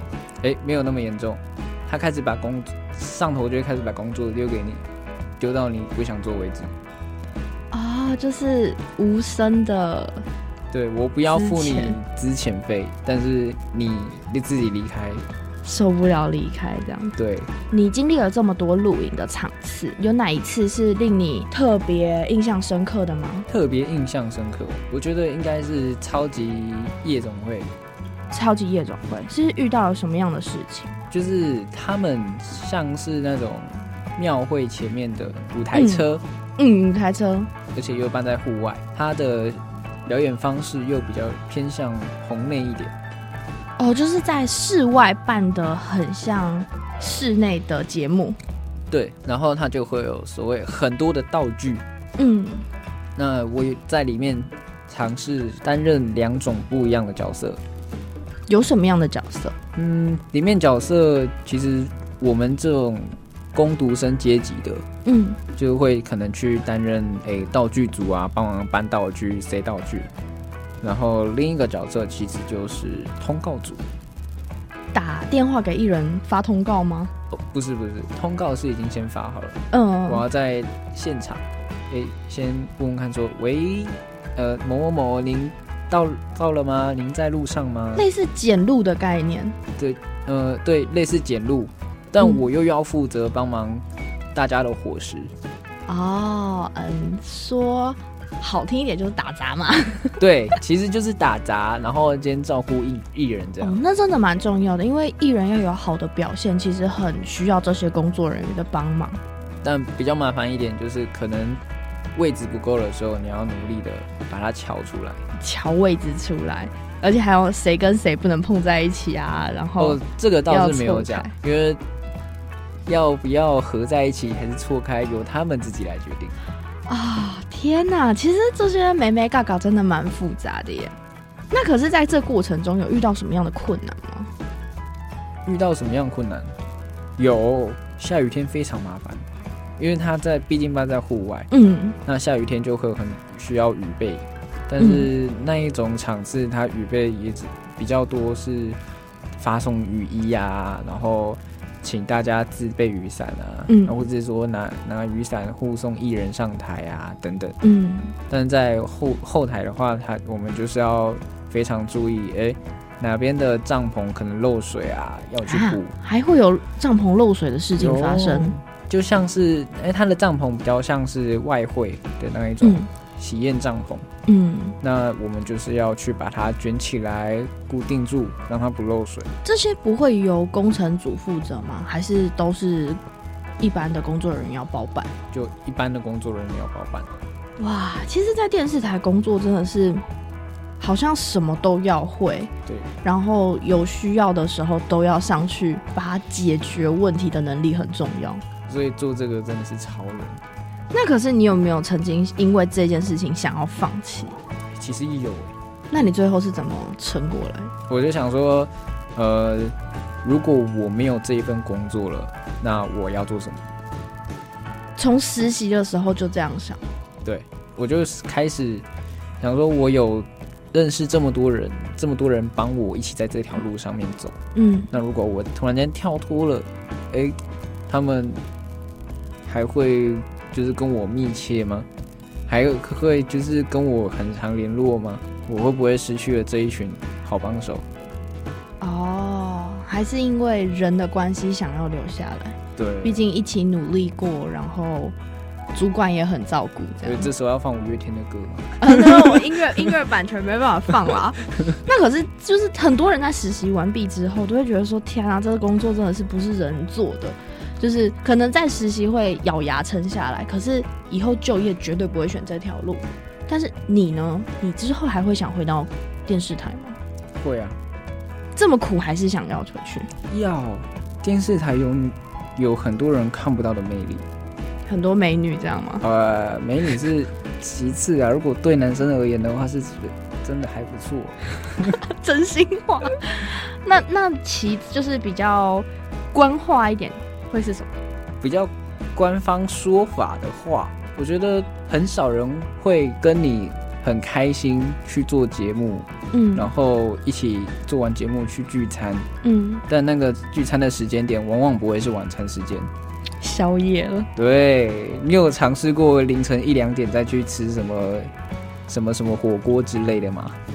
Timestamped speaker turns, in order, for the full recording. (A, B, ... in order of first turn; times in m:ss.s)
0:00.4-0:04.8 A
0:05.4-0:06.7 A
0:07.7-0:10.2 B
0:10.7-0:15.2 A
0:11.3-0:11.9 B
0:15.6-0:17.1 B
0:17.2-0:17.5 A
0:17.7-0:23.5 B
0:23.5-0:27.7 A
0:28.3-0:30.9 B
0:31.1-0:36.2 A
0:35.7-0:36.1 B
0:36.6-0:37.5 B
0:37.7-0:42.9 A
0:43.8-0:48.4 B
0:48.9-0:51.8 A
0:52.2-0:52.7 B
0:53.2-0:57.6 A
0:58.5-0:59.6 B
0:59.8-1:04.9 A
1:05.0-1:05.4 B
1:05.6-1:10.1 A
1:10.8-1:13.8 A
1:14.9-1:17.1 B
1:17.3-1:28.1 A
1:19.7-1:20.2 B
1:27.9-1:29.6 B
1:29.8-1:35.3 A
1:35.9-1:40.2 B
1:40.2-1:43.8 A
1:43.6-1:49.2 B
1:49.6-1:51.6 A
1:52.1-1:55.2 A
1:55.4-2:01.3 B
1:59.8-2:01.8 A
2:02.8-2:06.4 A
2:06.9-2:10.9 B
2:11.5-2:14.3 B
2:15.4-2:16.5 A
2:17.2-2:19.2 A
2:19.8-2:21.5 A
2:21.5-2:22.0 B
2:22.0-2:28.8 A
2:24.8-2:25.1 B
2:29.4-2:37.6 A
2:33.7-2:34.0 B
2:37.6-2:38.1 B
2:38.3-2:45.9 A
2:45.4-2:48.5 B
2:47.8-2:54.1 A
2:52.6-2:52.9 B
2:54.3-2:54.8 B
2:54.8-2:59.3 A
2:59.4-3:03.0 B
3:03.6-3:05.1 B
3:05.3-3:07.1 A
3:07.6-3:10.0 B
3:10.8-3:12.5 B
3:12.6-3:12.9 A
3:13.0-3:18.4 B
3:18.7-3:20.4 A
3:20.9-3:24.4 B
3:24.8-3:25.5 A
3:25.9-3:27.7 B
3:27.9-3:33.7 A
3:35.0-3:36.8 B
3:37.2-3:38.8 A
3:39.4-3:44.4 A
3:44.5-3:44.9 B
3:44.9-3:48.4 A
3:49.4-3:51.9 A
3:52.5-3:57.8 A
3:58.8-4:05.2 B
4:02.8-4:03.2 A
4:05.7-4:07.3 B
4:07.0-4:09.8 A
4:08.8-4:27.0 B
4:27.4-4:27.8 A
4:28.5-4:30.1 B
4:30.3-4:34.2 A
4:34.8-4:36.0 B
4:36.0-4:42.0 A
4:41.9-4:47.9 B
4:48.4-4:59.3 A
4:56.3-4:56.7 B
4:59.4-4:59.8 B
4:59.9-5:02.9 A
5:03.4-5:04.3 B
5:04.4-5:08.3 A
5:08.9-5:10.6 A